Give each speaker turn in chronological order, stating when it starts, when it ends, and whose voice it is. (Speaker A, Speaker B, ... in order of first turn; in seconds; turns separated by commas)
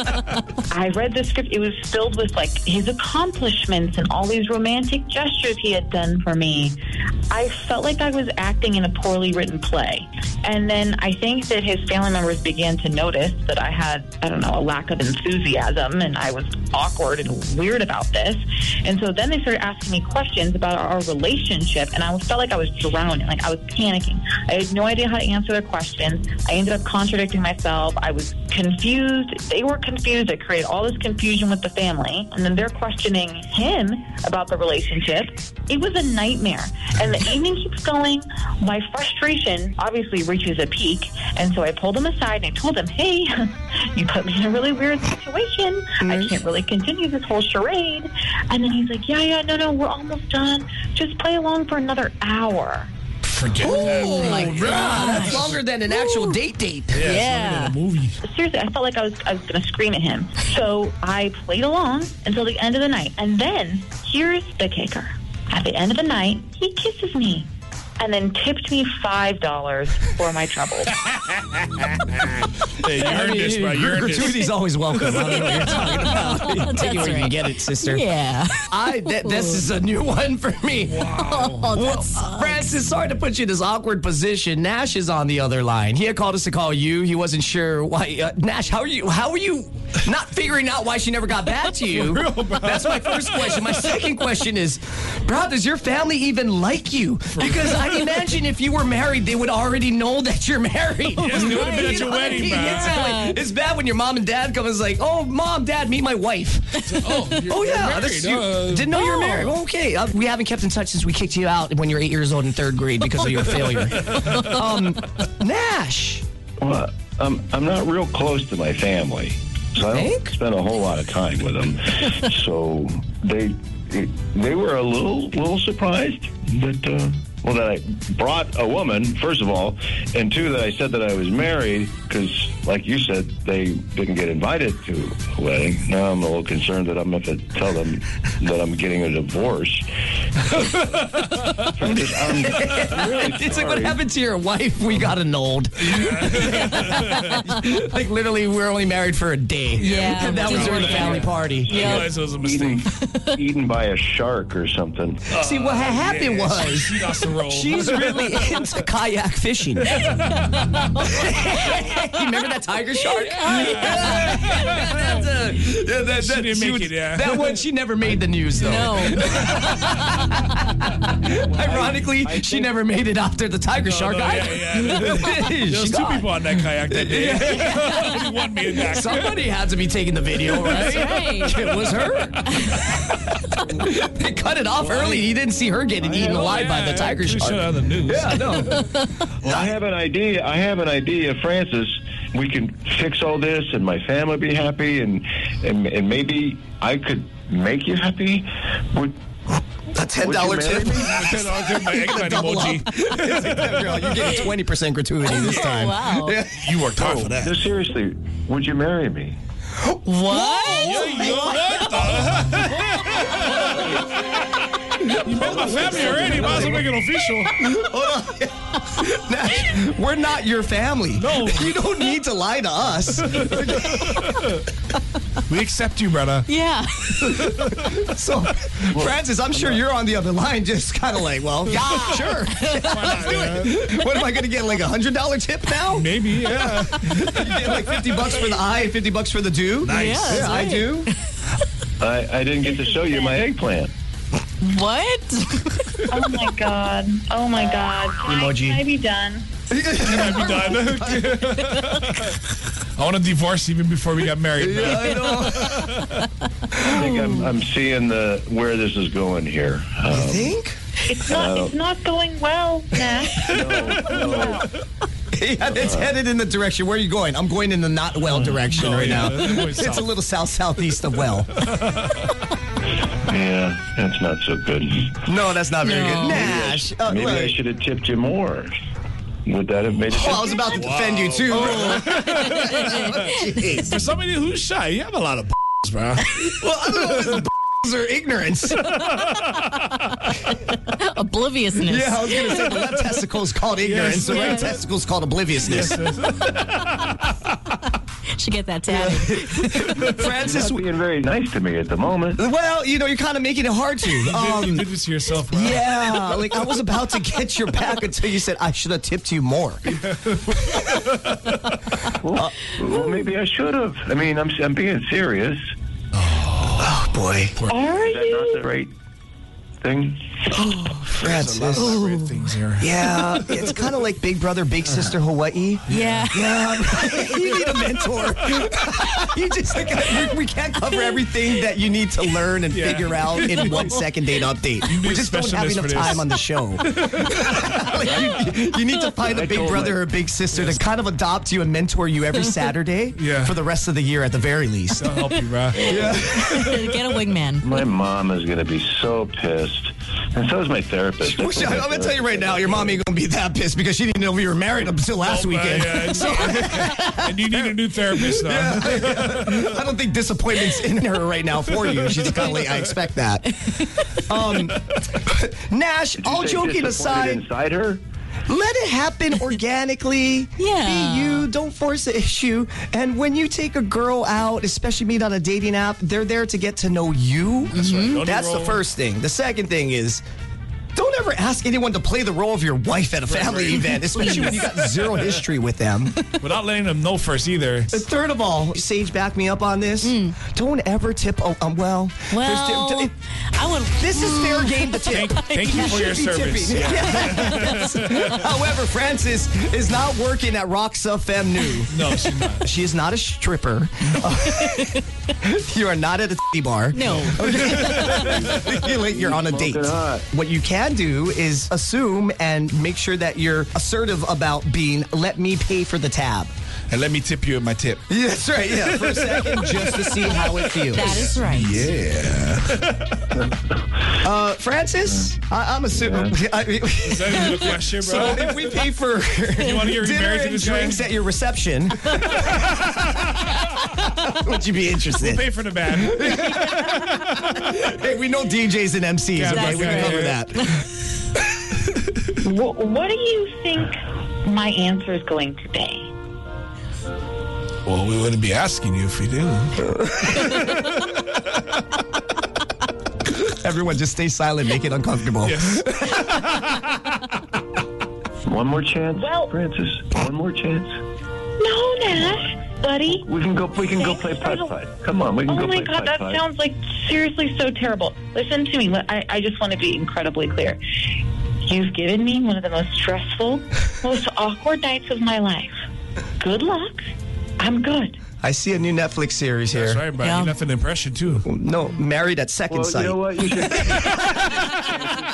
Speaker A: 0.7-6.8, Speaker A: 7.3-52.9, Speaker B: 46.0-46.4, Speaker C: 53.2-55.6, Speaker B: 53.6-57.0, Speaker D: 53.6-56.4, Speaker C: 56.9-58.2, Speaker D: 57.0-57.8, Speaker A: 58.2-67.5, Speaker A: 68.0-71.0, Speaker C: 71.3-74.4, Speaker B: 72.9-78.0, Speaker C: 75.0-75.3, Speaker D: 75.3-79.6, Speaker B: 78.7-81.1, Speaker C: 80.9-81.8, Speaker D: 81.1-82.7, Speaker B: 81.7-106.9, Speaker C: 91.8-93.8, Speaker C: 97.4-97.8, Speaker C: 101.2-103.0, Speaker D: 101.2-103.4, Speaker C: 106.8-108.9, Speaker B: 107.5-116.2, Speaker D: 109.0-109.5, Speaker C: 114.1-114.6, Speaker E: 116.6-139.9, Speaker B: 119.8-120.3, Speaker C: 140.5-141.7, Speaker E: 141.7-144.0, Speaker B: 141.9-152.0, Speaker C: 145.8-147.5, Speaker C: 149.8-152.9, Speaker D: 149.8-152.1, Speaker E: 152.3-155.3, Speaker D: 153.0-153.4, Speaker C: 155.3-158.7, Speaker B: 155.4-160.0, Speaker C: 159.9-161.1, Speaker B: 161.1-188.8, Speaker D: 161.1-161.6, Speaker D: 163.0-164.7, Speaker C: 163.6-165.1, Speaker C: 166.2-167.6, Speaker D: 168.6-170.1, Speaker E: 171.6-172.7, Speaker C: 173.8-179.4, Speaker C: 180.5-182.2, Speaker D: 180.6-181.9, Speaker D: 182.4-182.8, Speaker E: 184.8-185.3, Speaker E: 186.0-186.5, Speaker C: 186.1-188.8, Speaker E: 189.4-199.2, Speaker B: 199.9-206.9, Speaker E: 200.2-201.3, Speaker C: 201.0-204.5, Speaker D: 205.2-206.4, Speaker C: 205.4-205.8, Speaker C: 206.6-207.6, Speaker E: 207.0-209.4, Speaker B: 209.8-212.5, Speaker D: 210.1-212.1, Speaker C: 210.8-217.6, Speaker D: 213.2-213.8, Speaker B: 215.0-217.0, Speaker B: 217.5-224.6, Speaker C: 221.2-221.8, Speaker C: 223.3-224.7, Speaker C: 225.5-226.5, Speaker D: 226.5-227.3, Speaker C: 227.2-228.1, Speaker B: 227.4-241.1, Speaker E: 228.9-229.8, Speaker C: 232.0-233.8, Speaker C: 235.9-238.5, Speaker C: 239.8-240.7, Speaker D: 239.9-241.1, Speaker E: 242.0-243.9, Speaker A: 242.7-243.4, Speaker D: 244.6-245.9, Speaker A: 246.1-249.5, Speaker B: 248.2-248.8, Speaker B: 249.7-251.4, Speaker C: 250.0-252.4, Speaker C: 253.0-256.2, Speaker B: 254.6-255.9, Speaker D: 255.8-256.2, Speaker D: 256.8-257.6, Speaker E: 256.8-260.6, Speaker B: 260.1-260.8, Speaker A: 261.1-264.6, Speaker E: 261.2-261.7, Speaker E: 263.4-264.6, Speaker C: 263.5-264.6, Speaker B: 265.3-271.5, Speaker E: 265.7-266.2, Speaker C: 268.7-270.1, Speaker C: 271.6-272.3, Speaker E: 273.2-275.2, Speaker B: 275.3-277.6, Speaker D: 275.8-276.5, Speaker E: 276.1-278.8, Speaker E: 279.4-280.8, Speaker B: 280.2-283.9, Speaker C: 280.2-283.2, Speaker D: 282.3-283.8, Speaker C: 283.8-286.6, Speaker B: 286.4-288.9, Speaker C: 288.9-290.0, Speaker D: 290.8-293.1, Speaker B: 291.8-296.0, Speaker C: 293.8-294.7, Speaker D: 294.3-294.8, Speaker C: 295.6-297.5, Speaker D: 298.4-300.1, Speaker B: 298.9-300.8, Speaker C: 300.0-300.3, Speaker E: 300.3-302.4, Speaker B: 302.4-304.9, Speaker C: 304.3-306.6, Speaker B: 305.5-310.0, Speaker C: 309.9-311.8, Speaker E: 312.2-315.6, Speaker C: 316.2-316.9, Speaker B: 316.8-317.6, Speaker A: 317.7-318.6, Speaker E: 317.7-318.9, Speaker E: 319.8-320.4, Speaker B: 320.5-322.0, Speaker C: 321.2-323.8, Speaker D: 321.8-322.5, Speaker B: 322.8-345.1, Speaker D: 325.9-326.9, Speaker C: 325.9-326.3, Speaker C: 327.1-328.7, Speaker D: 330.9-331.2, Speaker C: 332.7-333.9, Speaker D: 333.5-334.0, Speaker C: 334.9-336.3, Speaker C: 336.9-338.0, Speaker E: 339.2-340.1, Speaker C: 340.5-340.9, Speaker C: 343.2-343.6, Speaker C: 345.0-346.5, Speaker E: 345.7-346.4, Speaker B: 345.9-346.6, Speaker D: 346.1-347.8, Speaker E: 347.6-352.9, Speaker B: 351.2-363.6, Speaker C: 355.2-359.8, Speaker D: 363.6-364.1, Speaker B: 364.3-367.4, Speaker E: 366.2-368.0, Speaker B: 368.5-380.2, Speaker D: 370.6-371.5, Speaker C: 377.7-378.8, Speaker D: 377.7-378.3, Speaker B: 380.9-386.2, Speaker C: 383.3-385.4, Speaker D: 384.1-384.7, Speaker C: 386.4-388.0, Speaker B: 387.9-393.1, Speaker D: 390.0-390.4, Speaker D: 392.3-396.2, Speaker B: 394.0-402.1, Speaker C: 395.1-398.3, Speaker D: 397.1-398.5, Speaker C: 401.9-402.7, Speaker B: 402.6-416.5, Speaker D: 404.4-405.0, Speaker D: 406.9-408.4, Speaker E: 408.3-410.3, Speaker C: 416.9-418.0, Speaker B: 418.1-421.3, Speaker C: 418.8-423.4, Speaker D: 420.9-421.9, Speaker B: 424.2-432.8, Speaker E: 425.9-426.4, Speaker C: 427.0-428.8, Speaker C: 429.6-431.0, Speaker C: 432.6-433.6, Speaker B: 434.0-440.8, Speaker C: 435.2-437.7, Speaker C: 439.4-440.4, Speaker D: 439.4-440.8, Speaker A: 442.4-446.1, Speaker C: 447.9-451.3, Speaker B: 453.3-456.3, Speaker C: 455.4-457.2, Speaker E: 458.4-460.9, Speaker A: 459.2-459.5, Speaker A: 461.6-463.3, Speaker E: 463.2-466.4, Speaker A: 463.9-464.7, Speaker A: 465.5-470.8, Speaker A: 471.7-475.8, Speaker A: 476.4-477.0, Speaker A: 477.6-478.2, Speaker B: 478.4-480.0, Speaker C: 479.7-481.5, Speaker D: 480.2-480.6, Speaker B: 481.4-484.3, Speaker E: 482.7-484.5, Speaker D: 484.3-485.0